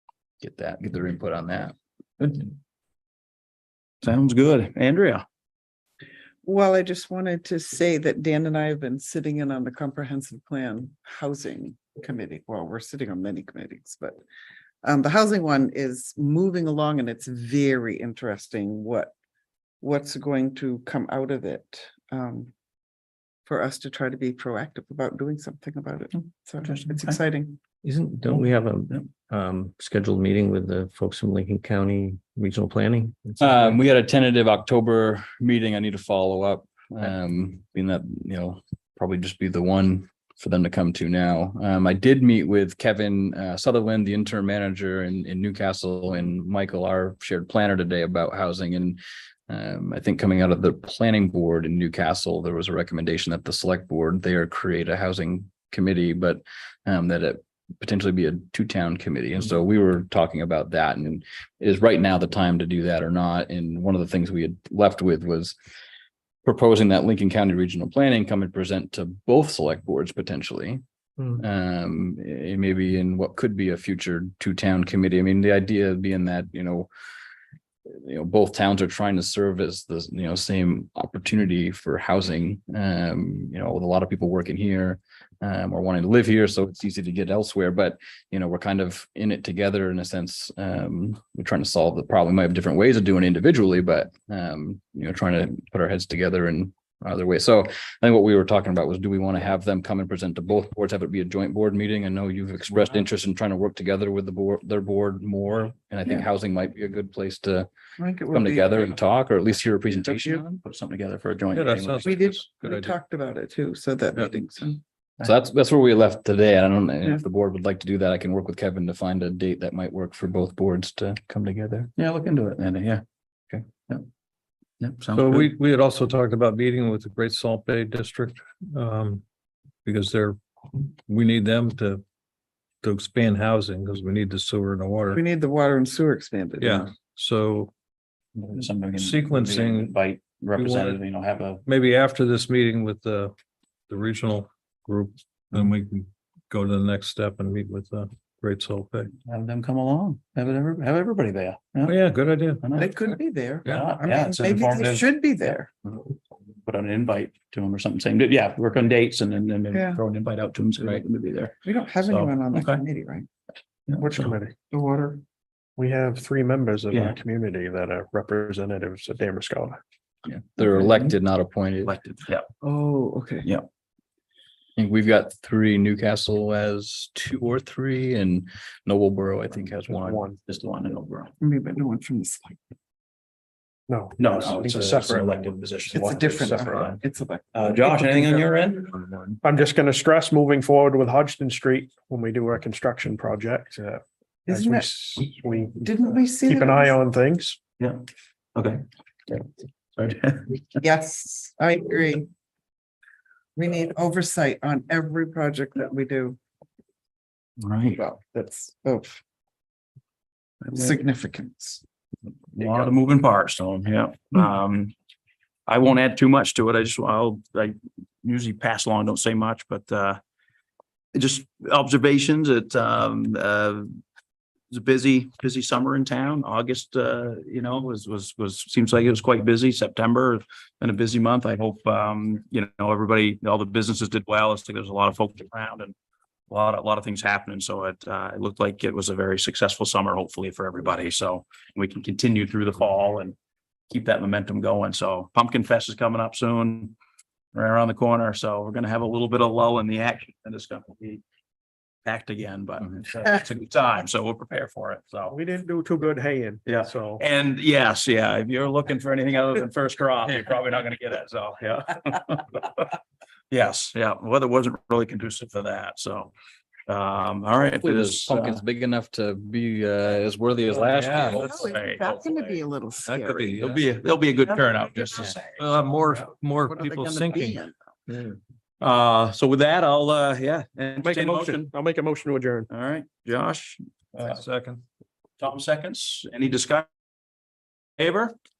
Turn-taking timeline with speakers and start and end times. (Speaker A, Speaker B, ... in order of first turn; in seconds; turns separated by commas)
Speaker A: 0.4-1.8, Speaker B: 4.0-5.2, Speaker C: 6.5-14.2, Speaker C: 14.8-19.1, Speaker C: 19.8-22.5, Speaker C: 23.5-27.6, Speaker B: 26.1-27.2, Speaker D: 27.8-33.8, Speaker B: 28.4-29.1, Speaker A: 33.4-65.5, Speaker A: 66.5-76.9, Speaker A: 77.9-107.7, Speaker C: 108.0-108.9, Speaker A: 108.3-110.6, Speaker B: 110.1-112.3, Speaker E: 111.5-112.9, Speaker C: 112.0-114.8, Speaker A: 115.2-121.9, Speaker B: 122.0-123.0, Speaker B: 124.8-125.5, Speaker E: 125.1-129.2, Speaker E: 129.8-130.4, Speaker E: 131.1-132.0, Speaker E: 132.8-135.2, Speaker C: 135.1-136.9, Speaker E: 136.6-137.7, Speaker B: 138.4-141.6, Speaker E: 139.0-140.0, Speaker E: 140.6-141.0, Speaker E: 141.7-143.3, Speaker E: 143.9-149.1, Speaker B: 149.2-152.0, Speaker E: 151.8-152.6, Speaker B: 152.6-153.0, Speaker C: 152.8-155.7, Speaker B: 153.7-155.1, Speaker B: 156.7-162.8, Speaker C: 159.7-160.0, Speaker C: 161.7-163.3, Speaker B: 163.9-164.4, Speaker F: 164.0-164.6, Speaker C: 164.7-165.2, Speaker F: 165.8-169.8, Speaker B: 166.9-167.2, Speaker A: 170.3-171.9, Speaker B: 171.8-172.5, Speaker C: 172.6-173.5, Speaker A: 174.8-180.2, Speaker F: 179.9-180.4, Speaker B: 180.5-181.3, Speaker C: 181.4-182.6, Speaker F: 183.9-185.5, Speaker B: 184.2-187.0, Speaker C: 185.9-188.4, Speaker B: 187.5-189.4, Speaker F: 189.4-197.6, Speaker C: 194.5-197.0, Speaker B: 198.6-199.4, Speaker B: 200.0-200.8, Speaker C: 200.8-202.3, Speaker C: 203.6-206.4, Speaker B: 207.6-208.0, Speaker C: 208.0-209.2, Speaker B: 210.7-210.9, Speaker C: 210.7-211.8, Speaker B: 212.5-214.9, Speaker B: 215.7-220.2, Speaker B: 221.1-223.9, Speaker B: 224.7-235.9, Speaker B: 236.5-243.4, Speaker B: 243.9-247.0, Speaker B: 247.5-251.2, Speaker B: 252.1-255.4, Speaker F: 255.3-257.2, Speaker B: 256.6-262.9, Speaker B: 263.5-266.3, Speaker B: 266.9-268.6, Speaker A: 267.8-271.5, Speaker E: 270.7-271.8, Speaker B: 271.2-272.6, Speaker C: 271.3-273.6, Speaker E: 273.1-273.9, Speaker B: 273.5-275.6, Speaker E: 275.0-277.6, Speaker C: 276.7-277.7, Speaker B: 278.8-281.7, Speaker F: 281.0-282.7, Speaker B: 282.7-284.4, Speaker E: 284.3-284.8, Speaker B: 285.4-286.9, Speaker B: 288.0-288.3